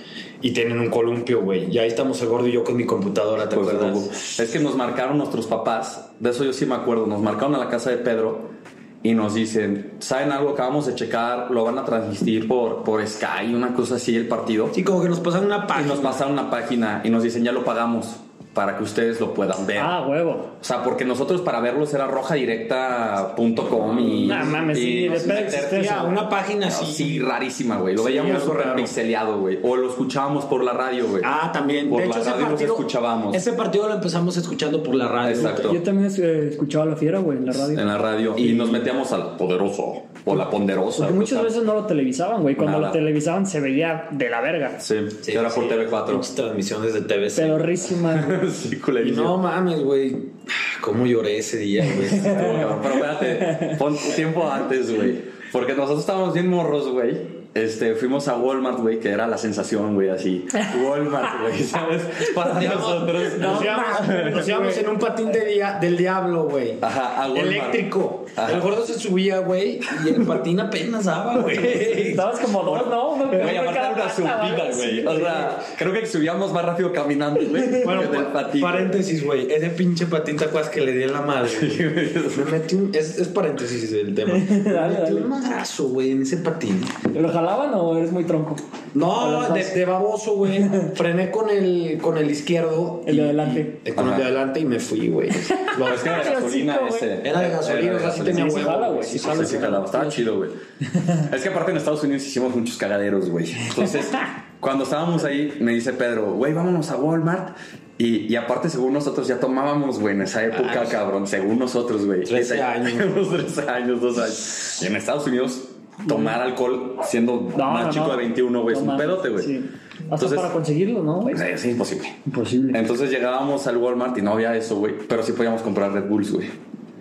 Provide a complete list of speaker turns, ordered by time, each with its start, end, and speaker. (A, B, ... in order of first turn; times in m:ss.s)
0:00.4-0:04.2 A
0:03.5-0:14.8 B
0:14.7-0:16.2 A
0:15.7-0:20.0 B
0:19.8-0:20.5 C
0:20.6-0:26.1 B
0:23.7-0:27.3 A
0:24.2-0:26.1 C
0:26.6-0:31.3 B
0:28.0-0:28.9 A
0:31.2-0:35.8 A
0:31.9-0:33.4 B
0:35.2-0:35.8 B
0:35.4-0:37.8 C
0:37.5-0:41.5 B
0:38.4-0:38.7 A
0:41.0-0:44.8 C
0:42.6-0:43.0 B
0:44.8-0:46.3 B
0:45.2-0:47.9 A
0:47.3-0:48.4 C
0:48.0-0:49.4 B
0:49.0-0:52.8 A
0:52.1-1:04.5 B
0:52.3-0:53.8 C
1:02.5-1:13.2 A
1:03.4-1:04.9 C
1:06.8-1:08.7 B
1:11.7-1:15.5 C
1:13.3-1:19.0 B
1:17.8-1:27.0 A
1:21.4-1:22.6 B
1:24.3-1:25.3 C
1:27.1-1:29.8 C
1:28.9-1:36.4 A
1:33.0-1:33.8 C
1:33.9-1:34.3 B
1:35.4-1:37.1 C
1:35.8-1:40.6 B
1:37.2-1:40.2 A
1:38.2-1:40.1 C
1:41.1-1:59.5 B
1:50.5-1:51.1 A
1:52.2-1:53.2 A
1:56.0-1:56.4 C
1:57.5-2:01.4 C
2:00.1-2:00.5 B
2:01.3-2:02.2 B
2:02.2-2:02.8 C
2:02.7-2:06.5 B